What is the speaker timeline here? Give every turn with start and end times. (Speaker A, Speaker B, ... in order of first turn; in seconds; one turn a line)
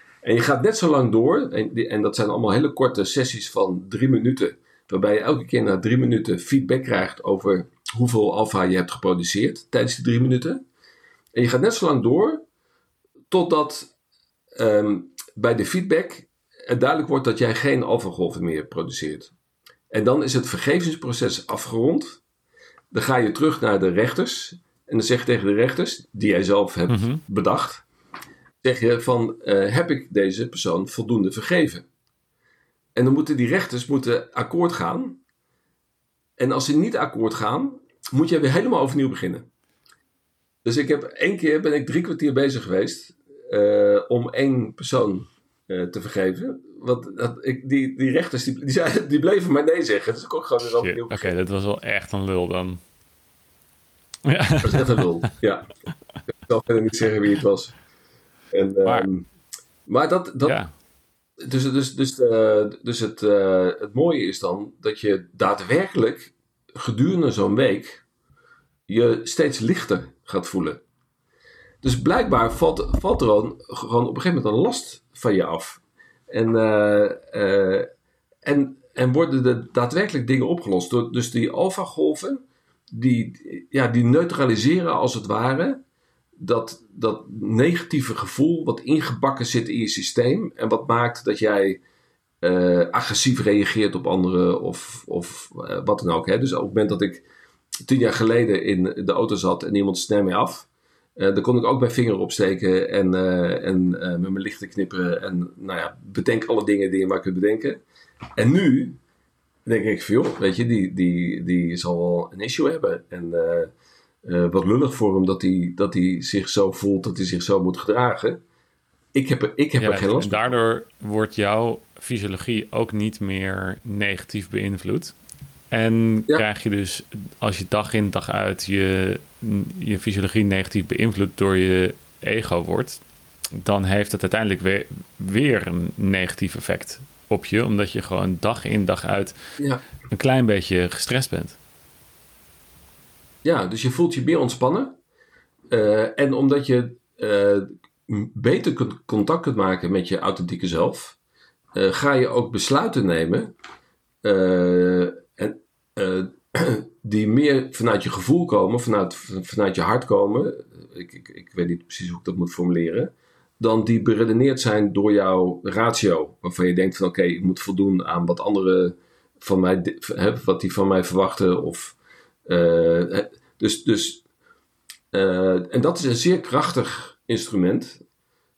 Speaker A: 0.2-10.6
Speaker A: 11.3-12.4
Speaker A: 13.3-13.9
Speaker A: 14.5-19.3
Speaker A: 19.9-22.2
Speaker A: 22.9-27.8
Speaker B: 26.9-27.2
Speaker A: 28.6-31.9
Speaker A: 32.9-35.2
Speaker A: 36.4-39.5
Speaker A: 40.6-51.3
Speaker B: 50.6-52.8
Speaker B: 54.2-55.0
Speaker A: 54.6-55.7
Speaker A: 56.4-57.8
Speaker A: 58.5-59.2
Speaker A: 59.9-60.6
Speaker A: 61.4-68.0
Speaker A: 68.9-70.8
Speaker A: 71.8-77.9
Speaker A: 78.4-85.8
Speaker A: 86.4-91.8
Speaker A: 92.4-97.2
Speaker A: 97.8-107.8
Speaker A: 108.4-109.0
Speaker A: 109.7-113.7
Speaker A: 114.2-118.4
Speaker A: 119.1-120.6
Speaker B: 119.8-125.1
Speaker B: 125.7-133.0
Speaker B: 133.6-139.3
Speaker A: 139.6-139.8
Speaker B: 140.1-141.6
Speaker A: 143.4-144.9
Speaker A: 145.7-151.2
Speaker A: 151.7-153.5
Speaker A: 154.2-174.2
Speaker A: 175.1-178.0